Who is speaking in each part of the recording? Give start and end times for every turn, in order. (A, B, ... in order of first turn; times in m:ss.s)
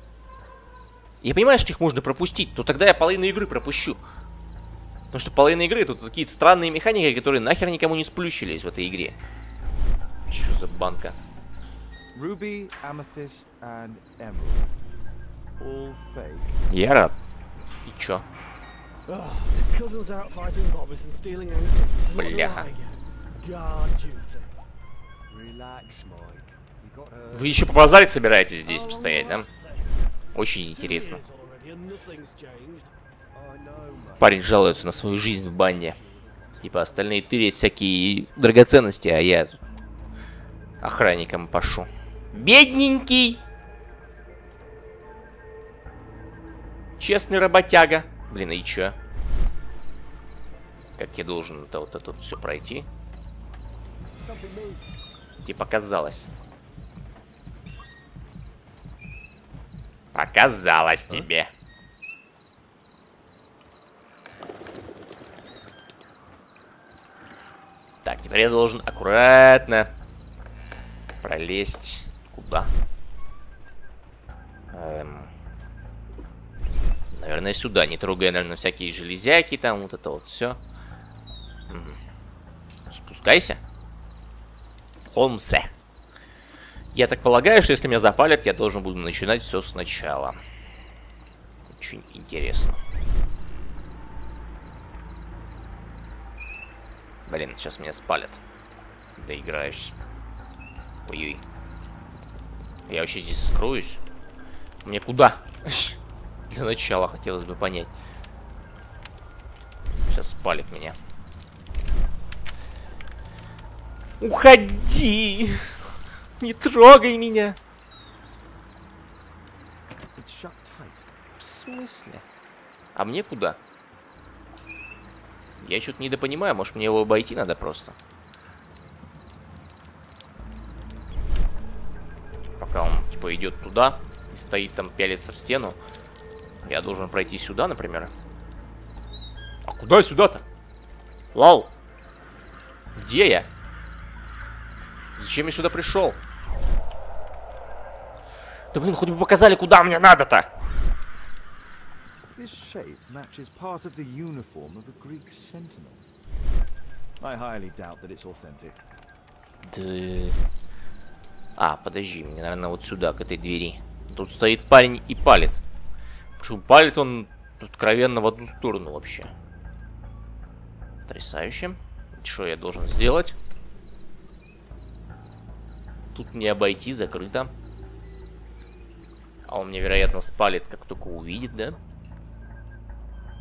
0:01.2-0:04.0 A
0:05.1-0:09.1 A
0:10.3-0:11.2 A
0:12.1-0:14.8 B
0:15.6-0:16.6 B
0:16.7-0:17.2 A
0:17.8-0:18.2 A
0:19.1-0:24.5 C
0:22.1-0:22.7 A
0:25.3-0:27.6 D
0:27.3-0:29.5 A
0:28.6-0:29.9 C
0:30.3-0:31.2 A
0:30.7-0:32.9 C
0:33.3-0:35.9 D
0:34.2-0:36.0 A
0:36.6-0:39.6 A
0:40.8-0:43.4 A
0:47.0-0:49.0 A
0:51.0-0:52.9 A
0:54.2-0:54.8 D
0:55.4-0:56.3 A
1:00.1-1:01.5 A
1:08.0-1:09.9 A
1:11.2-1:12.7 A
1:14.7-1:15.3 A
1:17.1-1:20.6 A
1:21.7-1:22.0 A
1:22.9-1:23.6 A
1:25.0-1:25.7 A
1:26.9-1:30.4 A
1:31.7-1:32.8 A
1:37.3-1:38.4 A
1:39.2-1:39.9 A
1:41.0-1:41.4 A
1:42.9-1:44.0 A
1:44.8-1:46.0 A
1:46.5-1:47.9 A
1:50.1-1:51.0 A
1:54.2-1:55.8 A
1:56.4-1:57.6 A
2:00.1-2:01.0 B
2:01.4-2:02.2 A
2:02.9-2:03.6 A
2:05.6-2:08.0 A
2:12.6-2:15.8 A
2:16.6-2:18.1 A
2:19.6-2:20.4 A
2:21.3-2:21.7 A
2:23.0-2:23.5 A
2:25.2-2:26.2 A
2:28.7-2:30.5 A
2:32.4-2:36.0 B
2:37.2-2:38.8 B
2:39.6-2:40.4 A
2:41.6-2:45.6 A
2:46.4-2:49.3 A
2:51.0-2:53.4 A
2:56.1-2:57.5 A
2:59.4-3:01.8 A